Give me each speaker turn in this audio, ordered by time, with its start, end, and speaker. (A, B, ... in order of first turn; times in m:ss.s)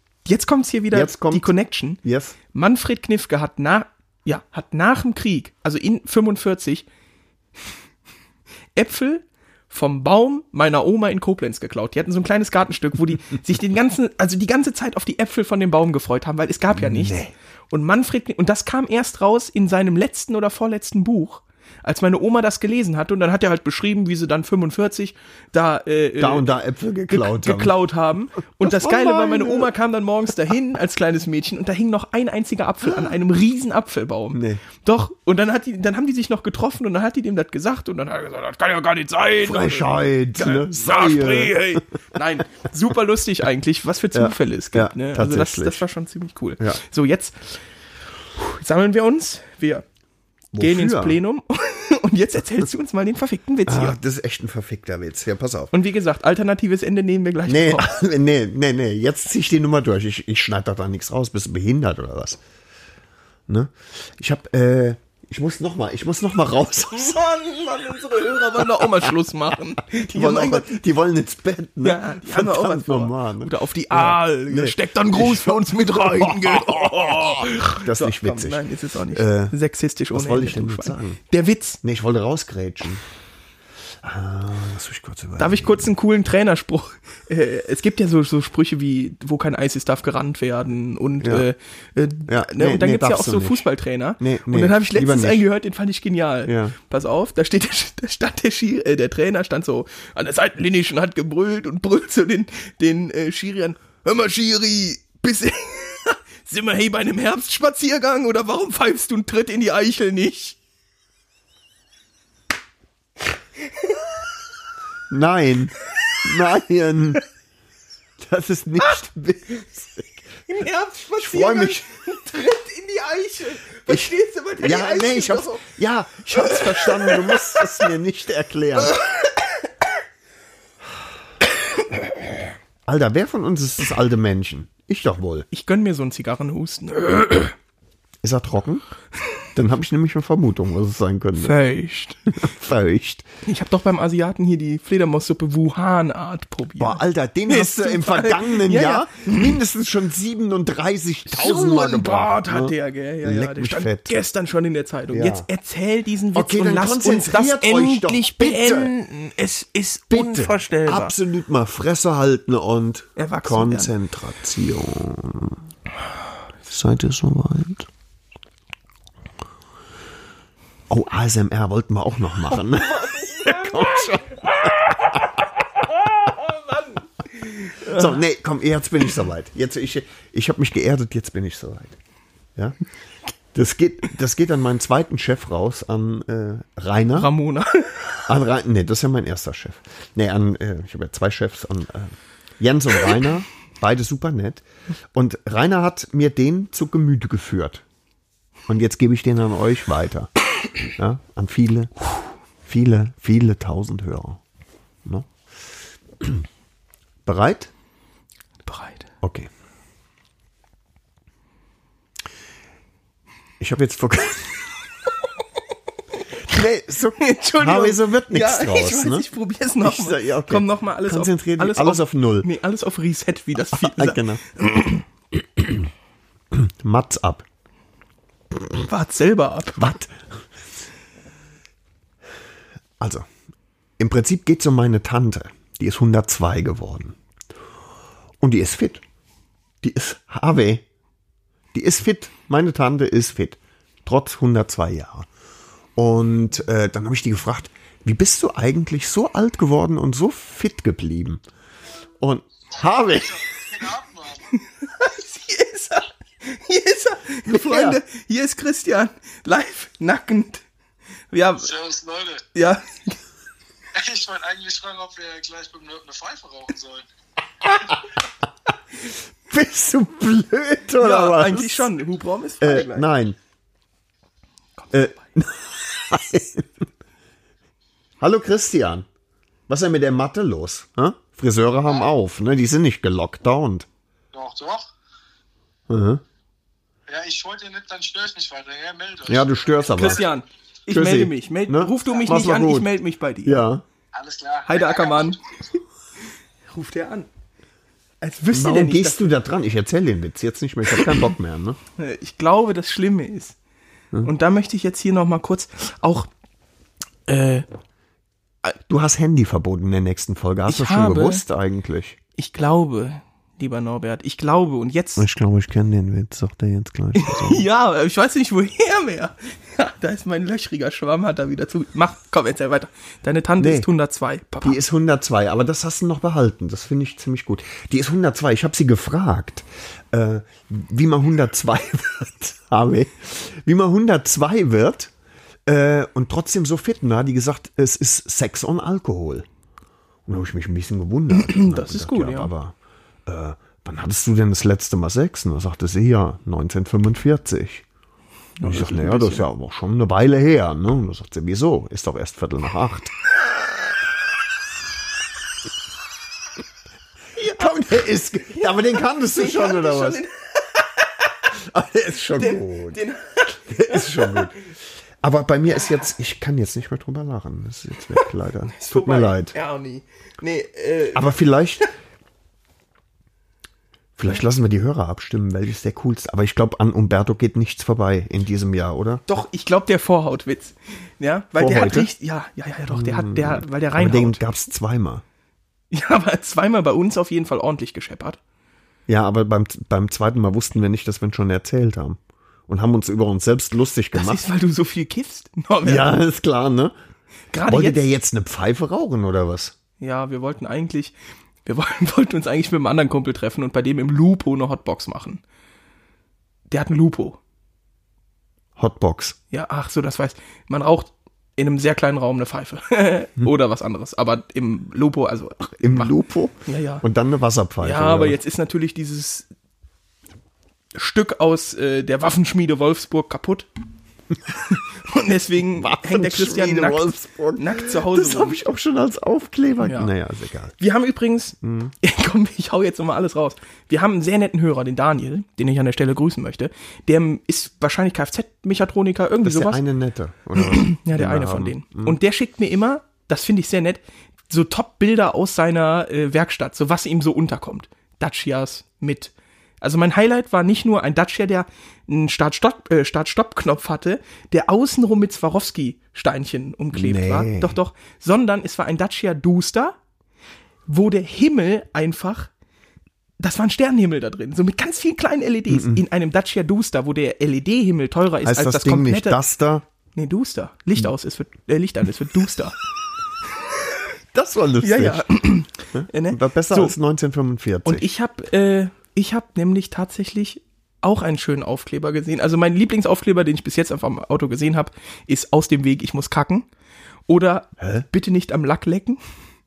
0:00.2-0:06.9 A
0:00.9-0:02.4 B
0:08.8-0:26.5 A
0:16.7-0:17.3 B
0:26.2-0:27.8 B
0:27.1-0:47.6 A
0:28.6-0:29.7 B
0:32.8-0:33.1 B
0:34.3-0:34.6 B
0:39.4-0:41.8 B
0:44.1-0:45.8 B
0:48.4-0:49.8 A
0:50.5-0:51.2 B
0:50.6-0:54.0 A
0:53.7-0:55.7 B
0:55.7-0:57.9 A
0:57.5-1:02.4 B
1:03.5-1:07.2 B
1:07.0-1:10.8 A
1:08.6-1:09.1 B
1:10.1-1:19.6 B
1:11.8-1:21.8 A
1:20.1-1:21.2 B
1:21.8-1:23.0 B
1:24.0-1:25.9 B
1:25.4-1:50.6 A
1:31.2-1:31.5 B
1:32.3-1:33.7 B
1:34.2-1:35.5 B
1:36.5-1:36.8 B
1:55.1-1:57.2 B
1:58.2-2:00.4 B
2:00.5-2:05.6 A
2:01.2-2:01.9 B
2:03.9-2:09.0 B
2:06.4-2:07.3 A
2:08.9-2:09.4 A
2:12.9-2:15.5 B
2:15.5-2:17.6 A
2:18.2-2:18.8 B
2:19.6-2:21.6 B
2:21.4-2:22.2 A
2:22.3-2:23.3 B
2:23.4-2:29.6 A
2:26.8-2:34.1 B
2:31.3-2:41.2 A
2:35.1-2:35.5 B
2:36.3-2:38.9 B
2:40.1-2:45.6 B
2:43.2-2:43.9 A
2:46.7-2:47.9 B
2:50.9-2:55.4 B
2:52.6-2:58.2 A
2:57.8-3:02.0 B
3:03.5-3:07.3 B
3:07.2-3:08.2 A
3:08.3-3:17.8 B
3:18.7-3:20.3 B
3:20.9-3:22.0 B
3:22.6-3:24.4 B
3:25.0-3:25.3 B
3:27.2-3:27.7 B
3:28.7-3:29.1 A
3:29.2-3:29.5 B
3:33.6-3:34.8 B
3:36.5-3:39.3 B
3:37.2-3:45.0 A
3:39.8-3:42.5 B
3:43.7-3:44.4 B
3:46.5-3:47.5 B
3:48.8-3:49.9 A
3:49.8-3:50.4 B
3:53.0-3:53.3 B
3:54.0-3:57.2 B
3:58.4-3:59.0 B
3:59.8-4:00.8 B
4:01.7-4:05.3 B
4:06.0-4:11.4 B
4:12.2-4:13.4 B
4:13.2-4:14.5 C
4:14.6-4:20.6 A
4:17.5-4:18.0 B
4:21.3-4:21.7 A
4:21.6-4:22.4 C
4:22.5-4:23.2 A
4:23.9-4:27.0 C
4:29.0-4:31.9 B
4:31.0-4:33.1 A
4:32.6-4:33.4 B
4:34.8-4:35.2 A
4:34.9-4:36.8 B
4:38.2-4:39.1 B
4:39.7-4:43.9 B
4:44.3-4:44.9 C
4:45.9-4:46.2 B
4:47.1-4:50.2 C
4:49.3-4:50.2 B
4:50.0-4:53.6 A
4:50.9-4:52.9 B
4:53.4-4:53.8 B
4:54.1-4:55.4 C
4:54.7-4:55.4 A
4:56.7-4:57.3 A
4:58.2-4:59.2 A
4:58.5-5:01.8 B
5:02.0-5:03.6 A
5:04.2-5:06.3 A
5:07.3-5:07.7 A
5:08.9-5:12.2 B
5:10.7-5:11.4 A
5:12.4-5:15.3 A
5:15.2-5:17.6 B
5:17.2-5:24.8 A
5:23.6-5:23.9 B
5:24.6-5:35.1 B
5:35.7-5:39.5 B
5:40.3-5:42.8 B
5:41.4-5:42.5 A
5:43.3-5:47.8 B
5:48.6-5:49.4 A
5:48.6-5:53.1 B
5:57.4-5:57.7 A
5:57.5-6:00.2 B
5:58.6-6:01.1 A
6:01.6-6:03.0 B
6:02.4-6:04.5 A
6:03.7-6:04.7 B
6:05.2-6:09.6 B
6:08.2-6:11.3 A
6:11.2-6:11.9 B
6:14.2-6:19.2 B
6:19.3-6:24.4 A
6:21.6-6:22.1 B
6:22.9-6:25.2 B
6:25.9-6:28.4 A
6:29.1-6:34.4 B
6:34.2-6:36.2 A
6:35.8-6:36.9 B
6:37.5-6:38.0 A
6:37.7-6:39.7 B
6:40.0-6:41.1 A
6:41.6-6:45.4 A
6:46.7-6:47.4 A
6:48.8-6:49.4 B
6:49.5-6:56.1 A
6:55.8-6:58.4 B
6:56.7-6:57.0 A
6:57.8-6:59.5 A
7:01.0-7:03.7 A
7:04.7-7:08.6 A
7:05.8-7:10.8 B
7:09.8-7:10.1 A
7:10.8-7:19.8 A
7:11.6-7:11.9 B
7:19.4-7:22.2 B
7:20.6-7:40.0 A
7:36.9-7:37.8 B
7:40.9-7:42.5 A
7:43.4-7:49.4 A
7:45.7-7:46.0 B
7:48.4-7:49.8 B
7:50.2-7:52.8 A
7:54.3-7:55.4 B
7:54.8-7:57.0 A
7:55.9-7:58.1 B
7:57.8-8:06.7 A
8:07.3-8:09.2 A
8:07.8-8:08.1 B